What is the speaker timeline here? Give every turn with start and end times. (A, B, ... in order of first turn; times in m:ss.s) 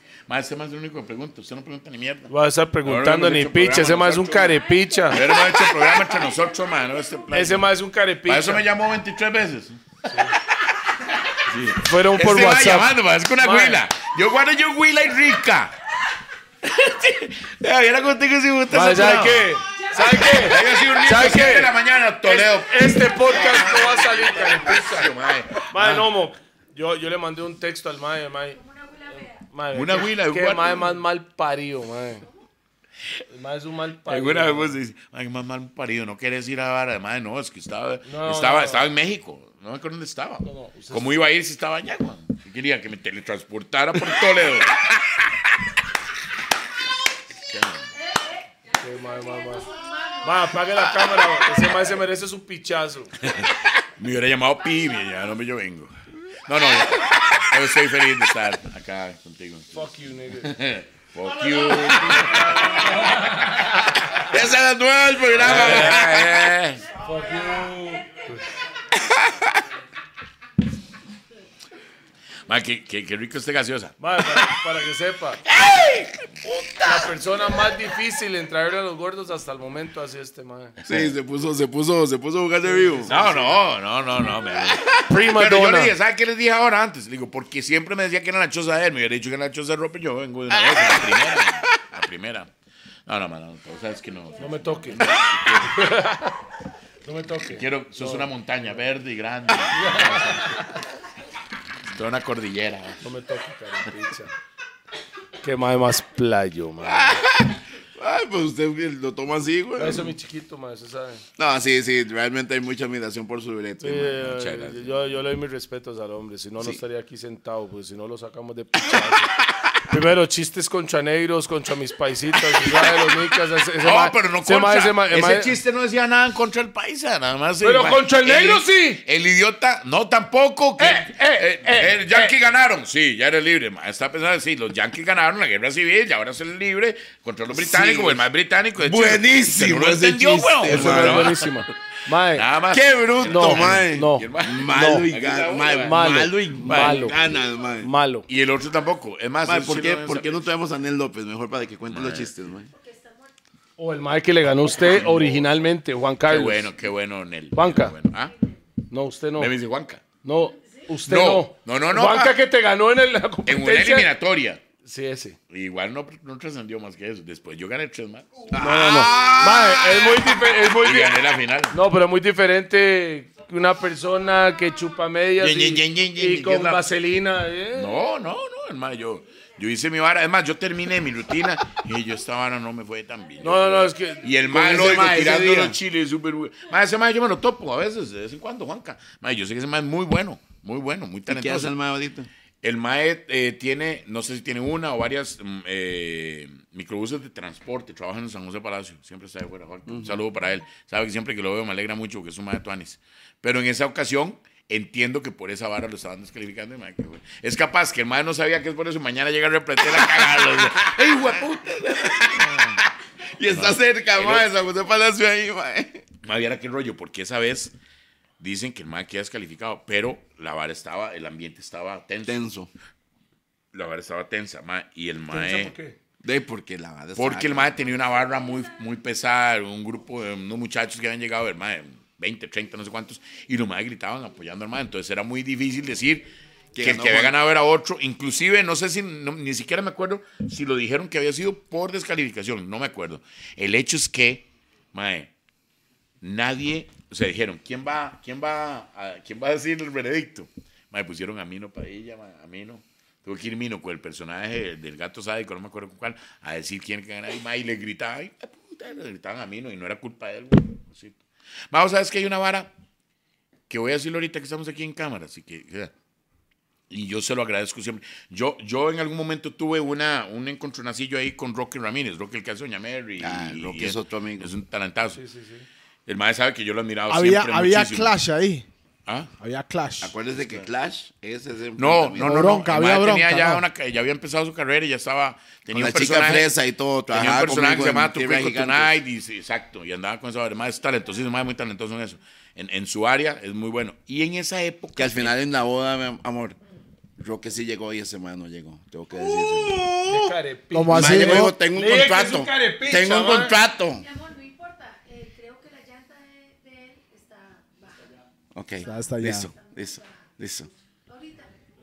0:00.3-0:02.3 A
0:02.3-0:05.3 B
0:02.8-0:07.7 A
0:04.6-0:07.2 C
0:07.3-0:08.7 B
0:08.3-0:10.0 A
0:10.1-0:10.4 B
0:11.5-0:15.8 A
0:11.8-0:13.8 B
0:16.6-0:26.1 A
0:18.7-0:21.7 B
0:19.7-0:21.5 C
0:22.2-0:25.1 B
0:25.7-0:28.6 B
0:28.5-0:29.5 C
0:29.1-0:32.3 B
0:29.7-0:31.0 A
0:33.3-0:34.8 B
0:34.1-0:45.5 A
0:38.0-0:38.9 B
0:40.4-0:41.2 B
0:47.5-0:47.9 A
0:48.0-0:50.6 C
0:48.8-0:49.7 B
0:50.2-0:53.1 B
0:53.3-0:55.9 A
0:56.4-1:02.9 A
0:59.7-1:00.6 B
1:01.7-1:04.2 B
1:02.5-1:03.2 C
1:04.2-1:06.3 D
1:05.4-1:06.9 A
1:05.4-1:06.1 B
1:07.0-1:08.4 B
1:09.0-1:09.5 D
1:12.5-1:14.0 A
1:14.0-1:15.4 B
1:15.6-1:17.1 D
1:15.6-1:15.9 A
1:16.8-1:20.8 B
1:20.8-1:21.1 A
1:20.9-1:23.1 D
1:22.6-1:23.6 B
1:23.1-1:32.5 A
1:25.0-1:25.9 B
1:30.5-1:31.6 D
1:33.1-1:35.8 A
1:33.7-1:35.1 C
1:34.4-1:36.4 B
1:37.0-1:38.8 B
1:37.5-1:40.6 A
1:39.7-1:40.8 B
1:41.9-1:43.0 A
1:43.0-1:44.3 B
1:45.4-1:47.3 B
1:46.8-1:50.1 D
1:49.8-1:51.2 B
1:51.4-1:54.2 D
1:53.8-1:59.4 B
1:54.2-1:55.1 A
1:59.9-2:05.6 B
2:03.8-2:21.7 A
2:07.6-2:09.0 B
2:10.8-2:12.4 B
2:17.5-2:18.2 D
2:18.8-2:21.4 D
2:20.6-2:22.5 B
2:22.3-2:27.1 A
2:22.7-2:27.9 D
2:23.2-2:25.1 B
2:25.8-2:27.2 B
2:27.1-2:27.8 C
2:27.8-2:28.3 B
2:28.3-2:30.5 A
2:29.4-2:32.7 D
2:31.9-2:32.3 A
2:32.7-2:33.3 C
2:33.8-2:36.7 B
2:34.7-2:35.5 A
2:36.2-2:38.3 A
2:37.5-2:38.0 B
2:38.1-2:38.6 C
2:38.9-2:39.5 B
2:39.4-2:40.0 A
2:40.2-2:44.1 B
2:40.6-2:40.9 C
2:41.1-2:42.3 A
2:43.5-2:44.6 A
2:44.8-2:45.4 B
2:45.5-2:48.5 A
2:48.5-2:49.4 C
2:48.5-2:50.2 D
2:48.6-2:51.2 B
2:50.7-2:51.8 A
2:51.7-2:58.0 B
2:55.4-2:56.9 A
2:57.7-3:11.7 A
3:03.4-3:05.0 B
3:04.5-3:05.8 D
3:11.3-3:12.3 D
3:12.6-3:31.4 A
3:19.9-3:20.2 D
3:29.8-3:36.0 D
3:32.1-3:32.8 A
3:33.5-3:34.5 A
3:36.2-3:37.7 A
3:38.4-3:42.4 A
3:42.3-3:42.7 D
3:43.7-3:45.7 A
3:45.3-3:46.0 B
3:46.2-3:47.8 D
3:47.2-4:05.3 A
3:56.7-3:57.4 D
4:06.2-4:21.2 A
4:21.7-4:22.7 A
4:23.7-4:25.9 A
4:26.9-4:35.2 A
4:33.2-4:34.5 D
4:35.2-4:35.7 B
4:36.1-4:38.2 A
4:37.1-4:38.7 E
4:39.4-4:40.1 E
4:40.0-4:42.5 D
4:41.8-4:46.5 A
4:42.2-4:43.6 E
4:45.7-4:49.0 D
4:47.1-4:55.4 A
4:55.0-4:56.6 D
4:57.2-5:00.2 D
4:59.5-4:59.8 E
5:00.0-5:03.6 B
5:00.7-5:01.6 E
5:00.9-5:04.1 D
5:03.9-5:08.2 C
5:08.6-5:10.7 D
5:08.8-5:09.5 E
5:09.4-5:11.6 C